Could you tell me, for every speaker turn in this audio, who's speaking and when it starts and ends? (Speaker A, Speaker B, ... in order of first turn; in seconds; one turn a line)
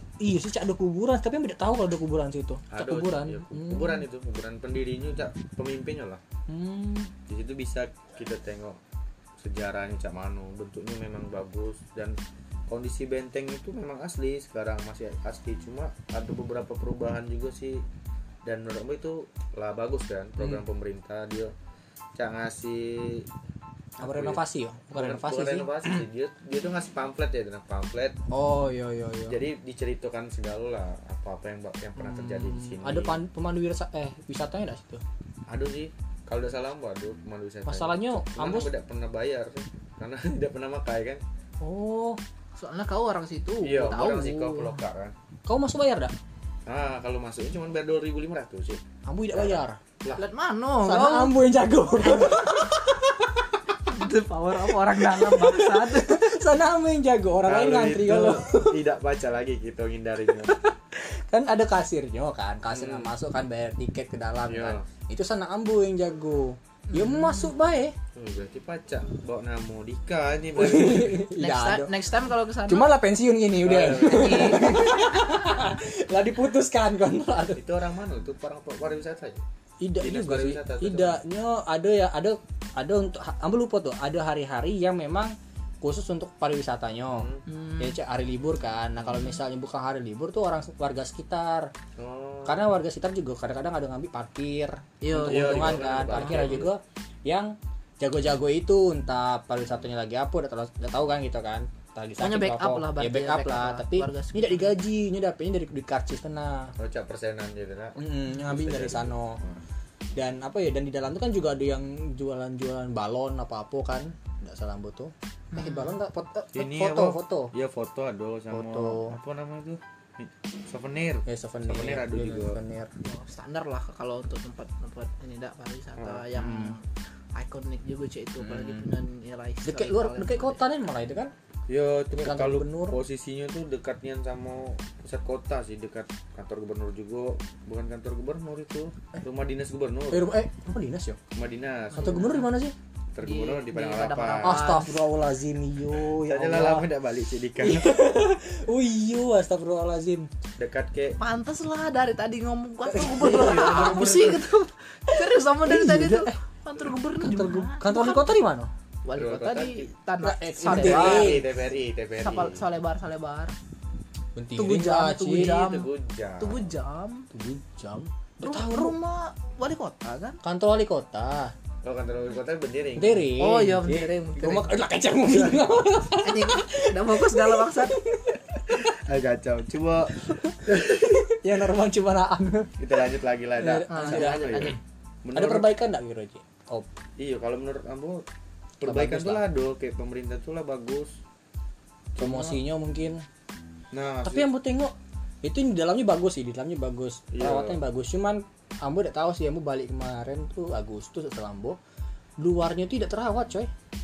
Speaker A: 0.2-4.0
Speaker B: 2.7-6.2
Speaker A: 6.5-7.1
Speaker B: 7.3-8.8
Speaker B: 9.4-12.2
Speaker B: 12.7-17.8
Speaker B: 18.4-21.5
Speaker B: 22.2-23.3
Speaker B: 24.0-24.4
Speaker A: 24.0-26.1
Speaker B: 24.9-28.2
Speaker A: 28.3-29.4
Speaker B: 29.3-33.2
Speaker A: 32.0-35.0
Speaker B: 35.5-41.2
Speaker A: 37.7-38.7
Speaker A: 41.6-42.2
Speaker C: 42.6-44.8
Speaker B: 43.6-45.1
Speaker A: 45.5-46.1
Speaker B: 46.7-48.8
Speaker A: 49.0-49.8
Speaker B: 49.3-50.2
Speaker C: 50.1-51.3
Speaker A: 50.8-53.9
Speaker C: 53.9-56.2
Speaker A: 54.5-58.8
Speaker B: 57.5-60.6
Speaker A: 60.4-68.0
Speaker B: 62.7-63.1
Speaker B: 64.5-64.8
Speaker C: 66.9-67.5
Speaker B: 68.2-71.2
Speaker A: 70.5-71.9
Speaker C: 71.3-72.9
Speaker A: 72.6-77.6
Speaker B: 73.6-74.8
Speaker C: 74.0-75.0
Speaker B: 77.6-79.4
Speaker A: 79.8-91.7
Speaker B: 80.0-81.2
Speaker B: 87.2-87.4
Speaker C: 87.5-88.0
Speaker B: 92.0-92.7
Speaker A: 92.5-106.7
Speaker C: 95.0-96.7
Speaker B: 95.2-96.7
Speaker C: 102.2-104.7
Speaker B: 106.8-109.6
Speaker A: 108.0-109.4
Speaker A: 110.2-117.5
Speaker C: 115.5-116.0
Speaker B: 116.5-122.6
Speaker A: 118.5-119.2
Speaker A: 121.3-122.9
Speaker C: 123.0-130.6
Speaker B: 126.0-126.2
Speaker A: 126.3-126.8
Speaker A: 128.4-128.9
Speaker A: 129.7-131.3
Speaker B: 131.7-140.3
Speaker A: 132.1-133.0
Speaker A: 140.1-141.2
Speaker B: 141.3-142.3
Speaker C: 141.9-142.5
Speaker A: 142.0-142.8
Speaker B: 143.1-144.7
Speaker C: 143.2-145.0
Speaker A: 144.4-146.9
Speaker B: 146.0-148.0
Speaker A: 147.6-150.3
Speaker B: 150.6-151.2
Speaker C: 151.2-158.3
Speaker A: 152.9-154.4
Speaker A: 155.1-156.3
Speaker A: 157.1-158.7
Speaker C: 159.1-161.5
Speaker B: 159.2-159.9
Speaker A: 160.2-161.4
Speaker B: 160.7-162.6
Speaker C: 162.2-163.6
Speaker A: 164.3-165.5
Speaker C: 164.6-167.3
Speaker B: 165.3-166.7
Speaker A: 167.3-169.0
Speaker C: 168.4-170.4
Speaker A: 170.4-171.5
Speaker B: 171.8-173.3
Speaker A: 173.0-178.4
Speaker C: 173.4-174.8
Speaker B: 175.2-175.7
Speaker C: 176.2-178.0
Speaker B: 178.6-181.3
Speaker A: 180.3-183.0
Speaker B: 182.8-185.7
Speaker A: 183.6-184.8
Speaker C: 183.9-184.8
Speaker A: 185.3-186.9
Speaker B: 187.2-188.2
Speaker B: 188.8-191.2
Speaker A: 188.8-189.4
Speaker B: 192.2-192.6
Speaker A: 192.2-193.2
Speaker B: 193.9-194.5
Speaker A: 194.2-201.8
Speaker B: 197.3-197.8
Speaker A: 202.4-203.7